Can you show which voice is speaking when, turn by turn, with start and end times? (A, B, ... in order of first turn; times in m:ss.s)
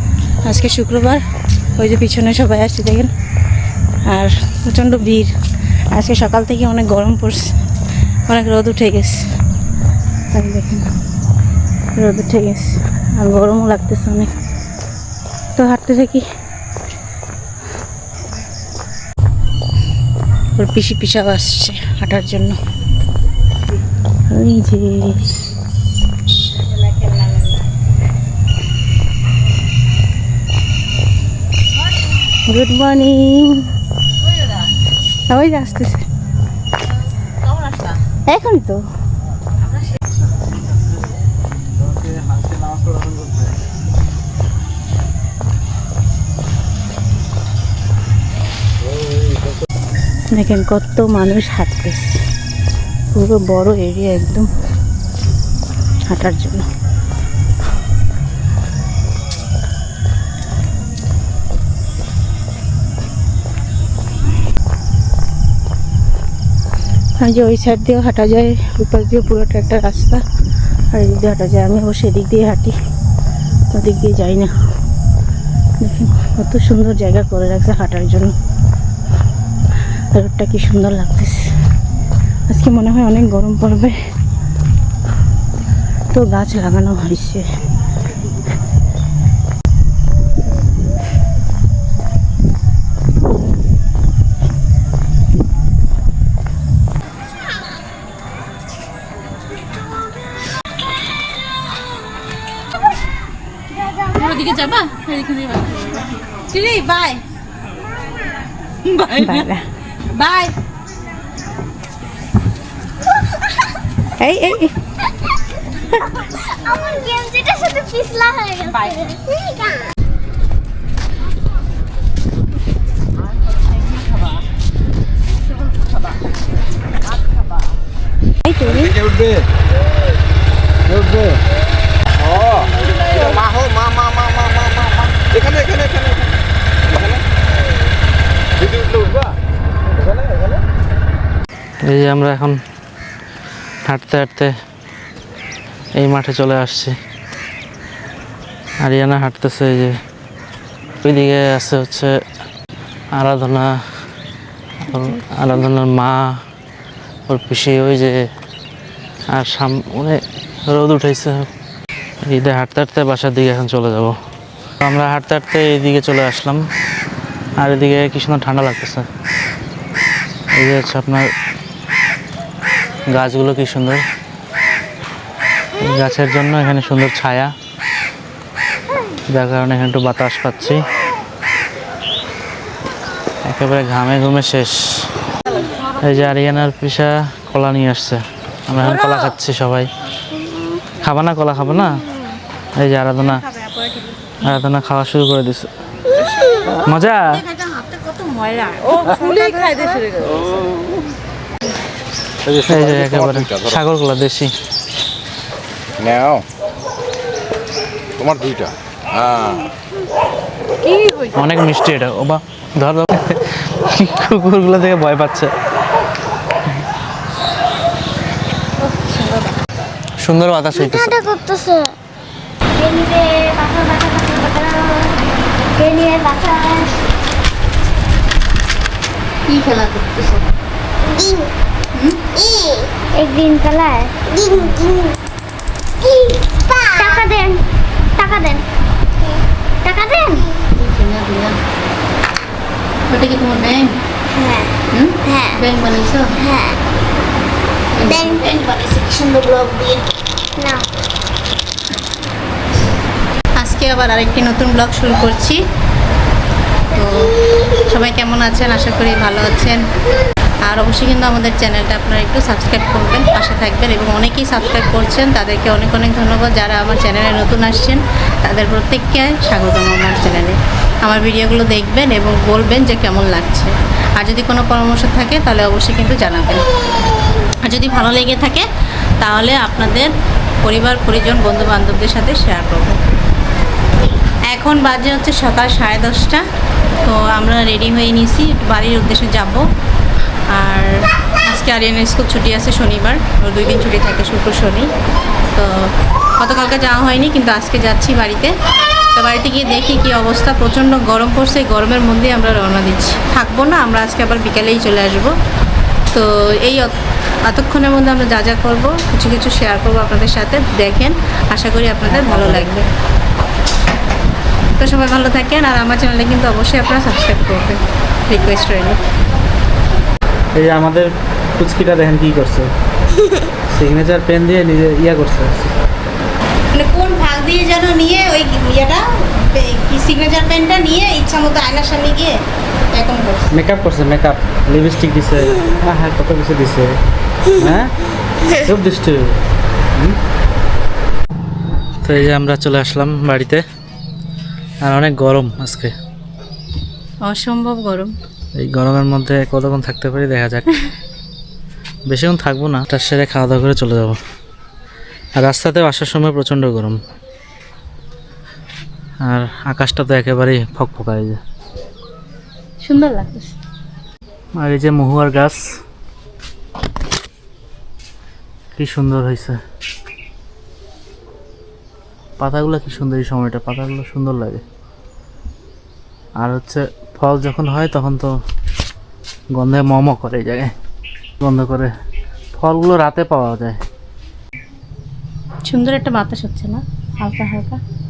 0:00.4-0:01.2 A
0:01.8-0:03.1 A
0:04.1-0:05.3 A
0:05.9-0:07.5 A
0:08.3-0:09.2 A
0:10.3-0:10.9 A
0:12.0-0:14.3 A
0:15.6-0:16.2 A
0:20.6-0:22.6 A
0:24.3-0:25.3 A
0:32.5-0:33.7 A
0:35.3-0:36.0 A
0:37.4-0:38.0 B
0:38.3-0:38.8 A
0:41.8-0:43.6 C
0:50.3-0:52.2 A
0:53.1-0:54.5 A
0:56.1-0:56.6 A
1:07.2-1:10.2 A
1:10.9-1:12.7 A
1:13.7-1:14.5 A
1:15.8-1:18.3 A
1:20.1-1:21.5 A
1:22.5-1:24.0 A
1:26.1-1:27.4 A
1:44.1-1:45.9 B
1:46.5-1:47.2 A
1:48.9-1:49.5 B
1:49.1-1:49.6 A
1:50.2-1:50.5 A
1:54.2-1:54.7 A
1:56.3-1:59.8 D
2:08.4-2:09.0 A
2:08.6-2:09.5 E
2:10.9-2:11.4 E
2:12.2-2:16.3 E
2:16.9-2:17.2 E
2:18.6-2:19.4 E
2:21.8-2:22.6 C
2:23.8-2:24.5 C
2:26.0-2:27.0 C
2:28.8-2:30.0 C
2:31.0-2:32.2 C
2:33.1-2:33.8 C
2:34.8-2:36.4 C
2:37.3-2:38.3 C
2:39.3-2:41.5 C
2:42.2-2:44.2 C
2:44.8-2:46.6 C
2:47.6-2:49.1 C
2:50.5-2:51.3 C
2:53.1-2:54.0 C
2:55.8-2:57.5 C
2:59.3-3:00.8 C
3:03.4-3:05.1 C
3:06.0-3:09.9 C
3:11.0-3:12.0 C
3:12.8-3:13.4 C
3:13.2-3:14.4 A
3:14.4-3:15.7 C
3:16.7-3:20.7 A
3:16.8-3:17.4 C
3:22.4-3:23.8 E
3:22.7-3:24.5 C
3:26.0-3:26.4 E
3:28.2-3:29.7 E
3:30.9-3:31.3 B
3:31.3-3:35.5 C
3:38.8-3:39.5 A
3:40.2-3:41.2 C
3:40.7-3:41.9 D
3:42.8-3:45.1 D
3:45.8-3:46.9 D
3:49.5-3:50.4 A
3:51.0-3:51.5 D
3:51.9-3:52.2 A
3:52.4-3:55.1 D
3:56.0-3:57.6 D
3:58.2-3:58.6 D
3:59.2-4:00.6 D
4:00.7-4:01.6 A
4:03.1-4:04.0 A
4:04.3-4:05.6 D
4:04.9-4:06.3 A
4:06.4-4:06.8 D
4:07.9-4:10.0 A
4:08.0-4:08.4 D
4:10.6-4:10.8 D
4:13.6-4:15.6 A
4:16.9-4:17.2 A
4:17.9-4:19.8 A
4:20.6-4:36.6 A
4:37.6-4:38.7 A
4:39.2-4:43.0 A
4:44.5-4:46.4 A
4:47.0-4:49.7 A
4:50.5-4:54.9 A
4:55.5-4:58.5 A
4:59.1-5:05.3 A
5:06.1-5:06.9 A
5:07.4-5:12.9 A
5:12.1-5:12.8 C
5:14.8-5:19.0 A
5:20.5-5:22.7 C
5:23.7-5:25.7 C
5:26.7-5:32.4 A
5:32.9-5:33.5 A
5:33.5-5:37.0 C
5:37.5-5:37.9 C
5:38.5-5:39.4 C
5:42.0-5:43.6 C
5:44.8-5:45.9 C
5:47.2-5:48.1 A
5:48.6-5:50.7 C
5:52.1-5:54.2 C
5:55.4-5:57.0 C
5:59.2-6:01.4 C
6:02.8-6:03.5 A
6:04.6-6:05.6 C
6:08.7-6:09.6 C
6:12.4-6:14.6 C
6:16.4-6:18.4 C
6:19.5-6:20.7 C
6:21.4-6:21.9 C
6:22.5-6:23.8 C
6:25.7-6:27.8 A